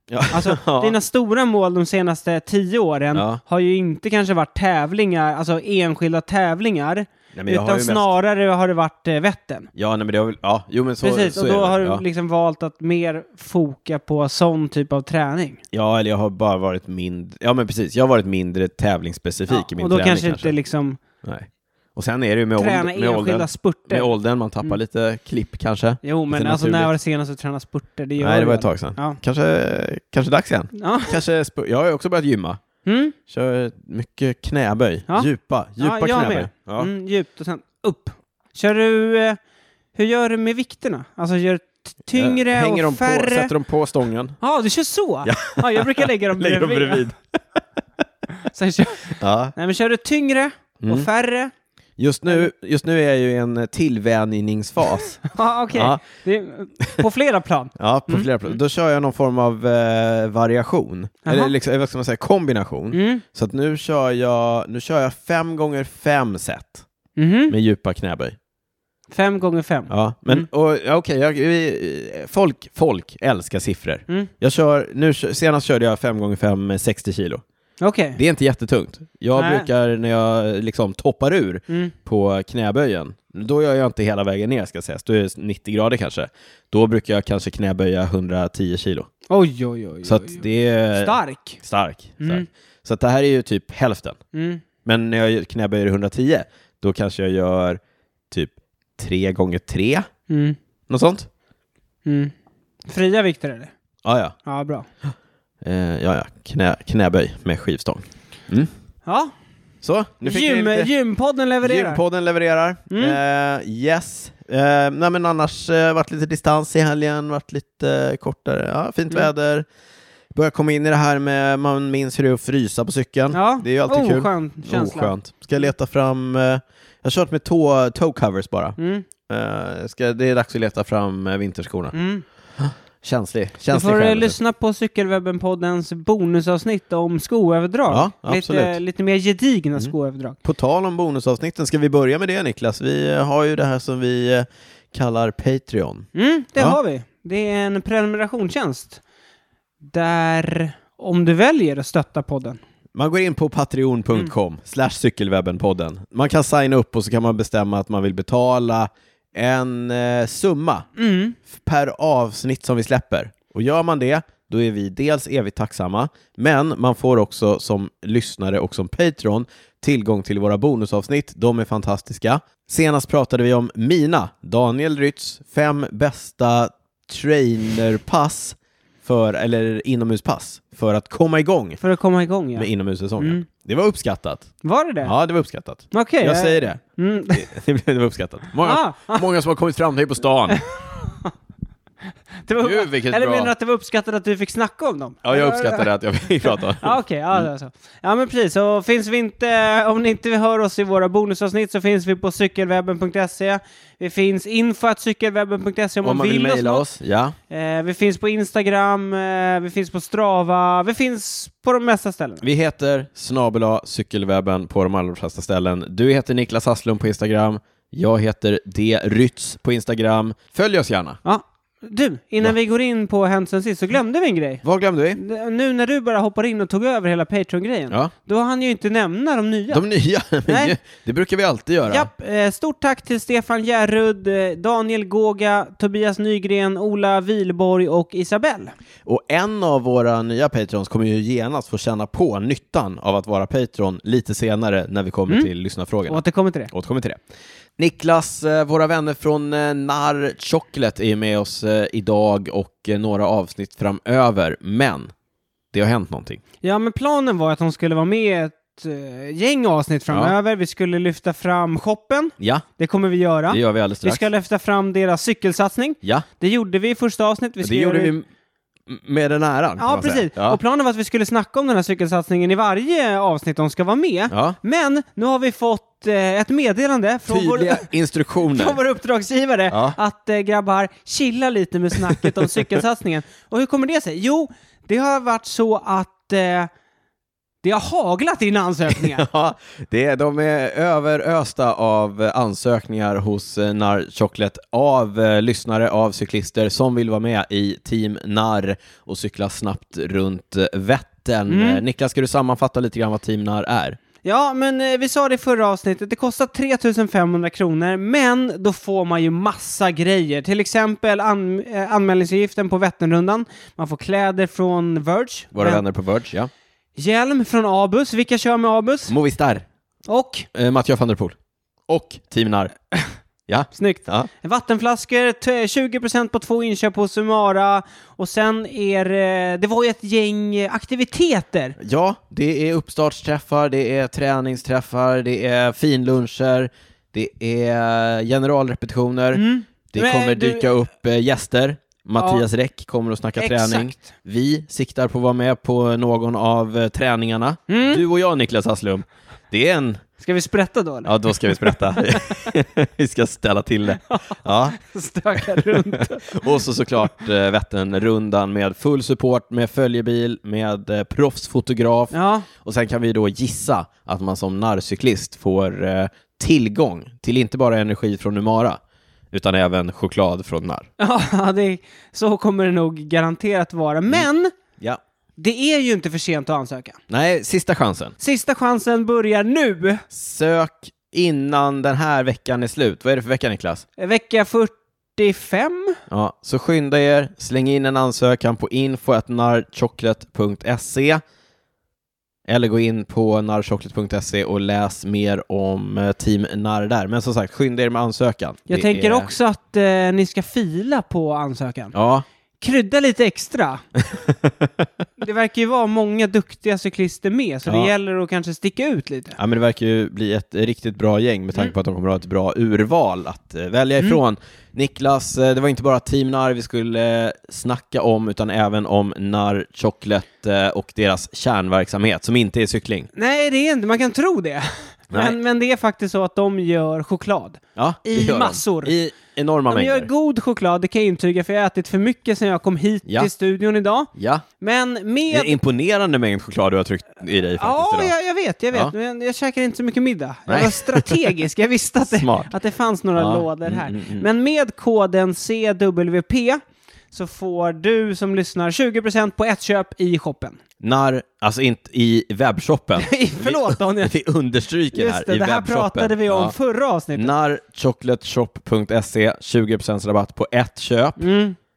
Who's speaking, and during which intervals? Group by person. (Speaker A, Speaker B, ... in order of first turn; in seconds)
Speaker A: 0.1-0.9, 3.1-3.4, 7.3-8.1, 9.8-12.1, 15.7-20.6, 21.2-26.9, 28.2-32.6, 33.3-36.9, 42.1-44.4, 45.2-47.2, 49.1-49.5, 50.8-51.1, 52.0-56.0, 57.8-66.8, 67.5-68.4, 69.9-77.4, 78.2-89.1, 90.0-94.2, 94.8-100.1, 100.9-101.3, 104.0-104.3, 105.6-108.7, 109.8-110.9, 111.6-119.7, 120.3-131.9, 132.6-134.4, 137.9-138.8, 139.8-146.8, 153.0-160.9, 161.5-181.8, 182.6-184.5, 185.0-186.8, 187.3-190.6, 192.6-193.5, 195.2-197.5, 206.0-207.4, 212.4-221.2, 224.6-225.2, 229.7-232.1, 239.1-247.2, 247.8-255.1, 255.7-256.4, 262.4-262.6, 263.5-264.2, 267.6-268.3, 268.9-270.6, 274.3-274.6, 277.3-278.8, 279.7-280.0, 289.0-304.0, 315.5-316.5, 319.1-319.7, 320.5-321.4, 321.9-322.7, 323.5-324.3, 331.8-350.1, 351.0-354.8, 355.4-368.8, 369.3-370.9, 377.1-378.1, 380.1-383.9, 386.1-391.2, 392.5-399.3, 401.9-402.2, 404.0-404.9, 407.7-407.9, 409.4-423.1, 425.1-425.4, 427.8-430.1, 434.2-434.5, 435.3-438.1, 440.5-441.2, 442.1-442.5, 443.2-444.3, 450.8-456.5, 457.1-461.2
Speaker B: 0.3-9.7, 11.0-15.6, 19.5-21.0, 22.6-24.1, 26.0-29.2, 30.7-31.2, 32.9-33.1, 35.8-39.4, 40.0-43.5, 44.4-47.0, 48.4-51.5, 55.3-58.5, 61.3-61.5, 62.9-63.2, 67.2-67.5, 69.1-70.5, 77.8-78.2, 79.4-79.7, 81.7-81.9, 89.3-91.6, 92.2-92.5, 94.3-94.6, 100.3-100.6, 102.0-102.3, 102.9-103.7, 104.5-104.9, 109.0-109.3, 110.2-112.0, 112.9-113.2, 123.3-125.2, 128.8-129.1, 131.9-132.2, 133.7-140.4, 146.1-149.0, 149.8-152.6, 161.0-161.4, 181.8-183.4, 184.6-185.1, 185.9-187.5, 188.6-189.3, 190.5-191.3, 192.4-195.9, 196.4-206.8, 207.5-212.4, 221.2-224.6, 225.2-229.8, 230.5-230.8, 231.9-238.7, 246.1-246.7, 256.6-268.1, 269.8-277.9, 278.4-286.7, 287.6-289.3, 301.5-301.8, 304.2-315.8, 317.0-319.1, 320.1-320.5, 323.7-331.8, 339.3-340.7, 342.2-342.4, 343.4-344.0, 347.7-348.0, 350.2-352.4, 354.0-356.5, 362.1-362.5, 371.0-374.5, 375.4-377.0, 378.2-380.1, 384.0-386.0, 398.7-401.9, 402.6-403.8, 405.2-409.4, 423.1-428.9, 429.7-435.6, 437.6-450.6, 453.0-454.1, 454.9-457.3, 461.2-461.6